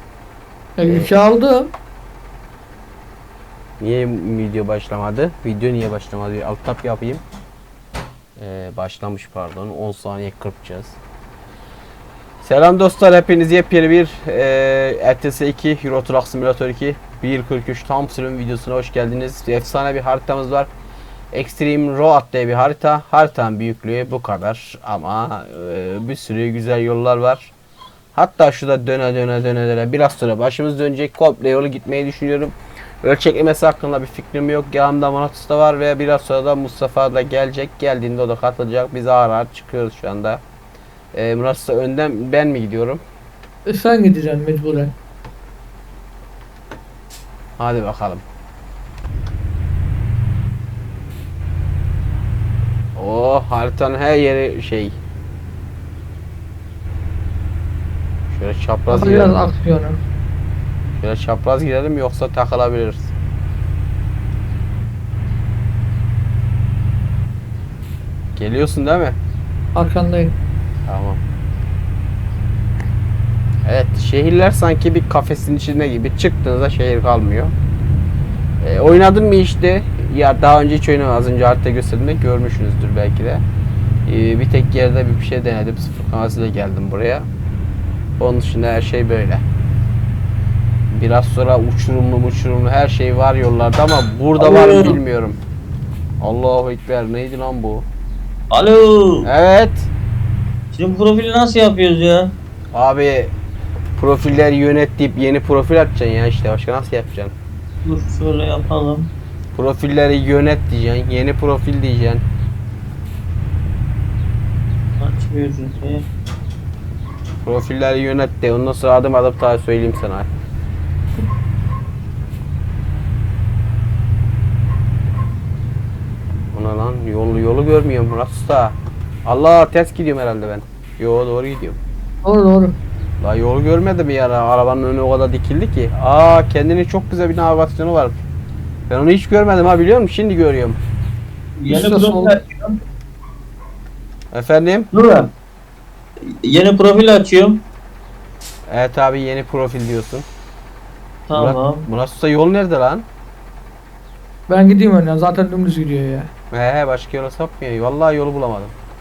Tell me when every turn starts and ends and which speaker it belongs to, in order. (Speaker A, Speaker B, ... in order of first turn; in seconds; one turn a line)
Speaker A: 0.8-1.7
Speaker B: 3.8-7.2
Speaker B: 8.4-11.0
Speaker B: 12.4-20.7
Speaker B: 21.3-27.5
Speaker B: 28.1-40.4
Speaker B: 41.1-43.0
Speaker A: 43.7-44.9
Speaker B: 47.6-48.2
Speaker B: 53.0-55.0
Speaker B: 58.3-59.4
Speaker A: 58.9-60.0
Speaker B: 61.0-63.1
Speaker B: 68.3-69.2
Speaker A: 69.7-70.3
Speaker B: 70.9-71.2
Speaker B: 73.6-77.5
Speaker B: 78.6-83.4
Speaker B: 84.1-87.3
Speaker B: 88.2-89.4
Speaker B: 90.9-95.4
Speaker C: 94.4-95.0
Speaker B: 96.2-97.9
Speaker C: 98.5-99.3
Speaker B: 99.2-99.9
Speaker C: 100.7-102.3
Speaker B: 102.7-103.3
Speaker B: 104.0-107.3
Speaker C: 107.8-109.1
Speaker B: 109.5-112.2
Speaker C: 115.0-116.1
Speaker B: 117.4-120.3
Speaker B: 126.5-131.8
Speaker A: 132.2-132.8
Speaker B: 133.2-138.2
Speaker B: 138.9-140.8
Speaker C: 141.6-142.8
Speaker A: 141.7-142.3
Speaker B: 144.3-144.9
Speaker C: 144.9-145.3
Speaker C: 146.4-147.6
Speaker B: 148.7-150.2
Speaker C: 151.3-151.8
Speaker B: 151.3-153.1
Speaker A: 154.5-156.3
Speaker B: 156.5-158.7